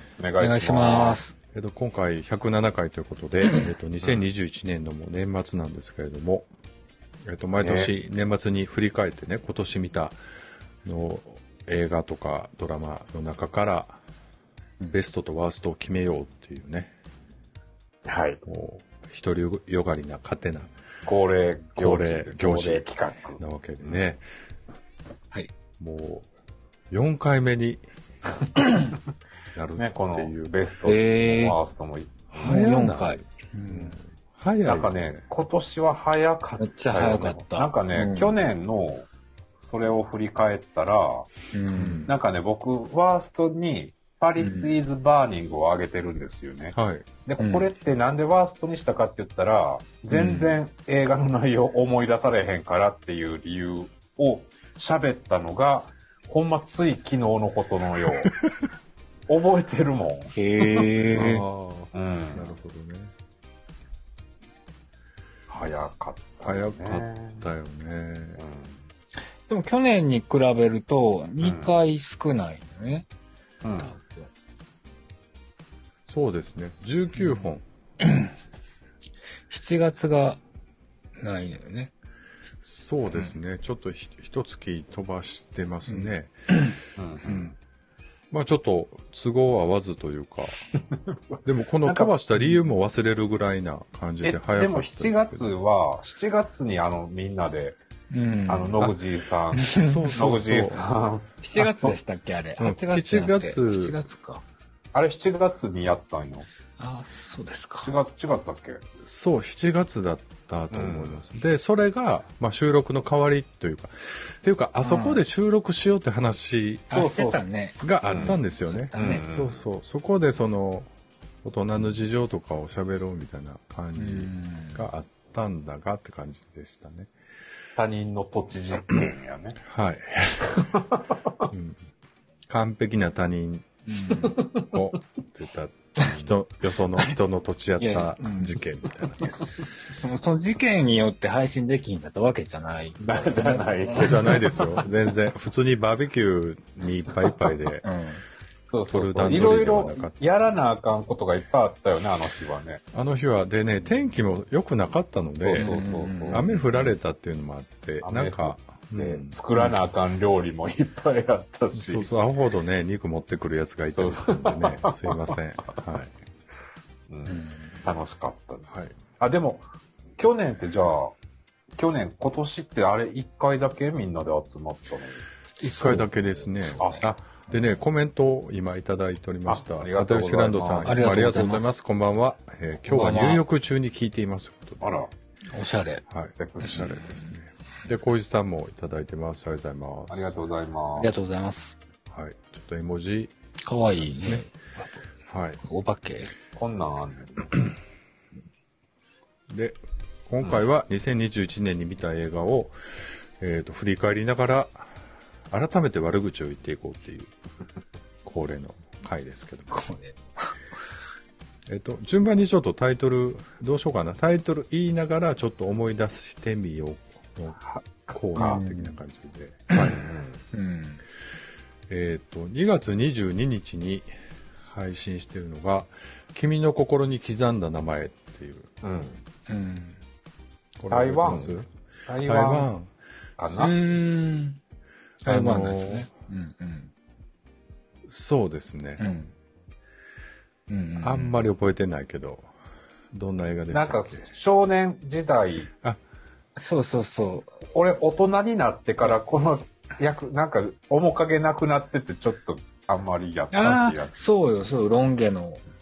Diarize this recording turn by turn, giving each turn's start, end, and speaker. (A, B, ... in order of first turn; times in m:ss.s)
0:00.2-0:01.2 A
0:00.4-0:01.3 B
0:01.5-0:06.5 C
0:07.2-0:10.2 C
0:07.6-0:07.9 A
0:10.8-0:14.0 C
0:14.9-0:16.9 C
0:18.0-0:18.4 A
0:18.4-0:20.7 C
0:21.0-0:23.9 A
0:21.8-0:22.8 C
0:23.4-0:24.2 C
0:25.8-0:26.3 C
0:26.9-0:27.8 C
0:29.5-0:30.3 C
0:29.8-0:32.6 A
0:30.8-0:31.6 B
0:32.3-0:35.0 C
0:32.4-0:34.0 B
0:34.6-0:39.1 A
0:36.6-0:38.3 B
0:39.6-0:41.3 A
0:41.5-0:42.1 B
0:41.7-0:42.1 C
0:42.1-0:58.3 A
0:44.4-0:44.7 B
0:46.7-0:47.1 C
0:47.4-0:47.7 B
0:50.1-0:50.6 B
0:58.2-0:58.5 C
0:59.3-1:01.4 A
1:00.3-1:01.4 B
1:01.1-1:03.1 C
1:01.9-1:02.5 A
1:05.5-1:07.4 A
1:06.4-1:08.4 C
1:08.4-1:08.8 A
1:09.5-1:13.1 B
1:11.4-1:11.7 A
1:13.6-1:13.9 A
1:13.8-1:14.3 B
1:16.1-1:17.6 C
1:18.0-1:18.3 B
1:19.5-1:20.4 B
1:21.2-1:21.9 B
1:22.6-1:26.3 C
1:23.0-1:23.3 B
1:25.9-1:26.7 B
1:27.0-1:27.5 A
1:27.2-1:27.5 B
1:28.3-1:30.6 C
1:30.7-1:32.1 A
1:31.4-1:35.5 C
1:34.2-1:37.8 A
1:38.1-1:38.9 B
1:38.5-1:41.3 A
1:39.5-1:40.1 B
1:39.7-1:40.8 C
1:41.4-1:44.4 B
1:41.6-1:42.0 C
1:42.6-1:44.0 C
1:44.9-1:46.5 A
1:46.8-1:47.9 B
1:47.8-1:48.8 A
1:49.0-1:57.1 C
1:50.7-1:51.2 A
1:54.7-1:55.2 B
1:56.9-1:58.3 B
1:57.0-1:57.4 A
1:57.8-2:00.9 C
1:58.0-1:58.4 A
1:58.9-1:59.2 B
1:58.9-1:59.6 A
2:01.4-2:07.1 C
2:04.0-2:04.9 B
2:07.8-2:09.6 A
2:09.6-2:10.6 C
2:10.6-2:11.0 A
2:11.5-2:11.8 C
2:12.5-2:13.7 C
2:13.9-2:14.5 B
2:14.2-2:14.7 A
2:14.7-2:19.6 C
2:17.8-2:18.6 B
2:19.2-2:24.3 B
2:23.0-2:24.9 A
2:23.9-2:27.8 C
2:27.8-2:28.2 B
2:28.6-2:32.8 A
2:28.9-2:30.2 C
2:32.9-2:39.4 C
2:35.4-2:36.6 A
2:35.6-2:36.6 B
2:38.0-2:42.1 A
2:41.7-2:46.1 C
2:43.8-2:45.8 A
2:47.1-2:48.7 A
2:47.3-2:47.8 B
2:48.7-2:49.0 C
2:49.2-2:49.7 A
2:50.2-2:51.1 A
2:51.8-2:55.2 A
2:55.6-3:05.0 C
2:55.6-2:57.0 B
2:56.8-2:57.0 A
2:59.5-3:01.0 A
3:00.8-3:01.8 B
3:02.9-3:03.4 B
3:04.8-3:05.1 A
3:05.5-3:06.0 B
3:06.1-3:10.3 C
3:06.3-3:07.0 A
3:06.6-3:07.1 B
3:10.1-3:11.1 A
3:11.0-3:11.8 B
3:12.1-3:13.3 C
3:13.6-3:15.0 B
3:14.0-3:14.4 C
3:15.3-3:15.6 C
3:15.6-3:16.3 B
3:16.6-3:17.5 A
3:19.5-3:19.8 C
3:20.3-3:22.7 C
3:23.4-3:24.9 C
3:25.5-3:27.3 C
3:28.2-3:29.9 C
3:29.7-3:30.2 B
3:31.7-3:37.6 C
3:37.7-3:38.6 A
3:38.1-3:40.1 C
3:38.4-3:39.0 B
3:39.8-3:40.4 A
3:40.5-3:41.0 B
3:41.9-3:44.1 C
3:44.6-3:48.7 C
3:48.8-3:49.2 A
3:49.5-3:50.0 B
3:50.8-3:51.7 C
3:50.9-3:51.6 A
3:52.1-3:52.7 A
3:52.2-3:52.9 C
3:53.4-3:53.8 A
3:53.4-3:53.8 C
3:53.5-3:54.6 B
3:55.2-3:56.9 B
3:55.2-3:56.1 C
3:58.0-3:59.0 C
3:59.0-3:59.3 B
4:00.7-4:01.5 B
4:01.0-4:02.5 C
4:03.1-4:04.2 C
4:03.7-4:05.7 A
4:06.6-4:07.5 B
4:07.6-4:14.2 A
4:13.5-4:15.6 B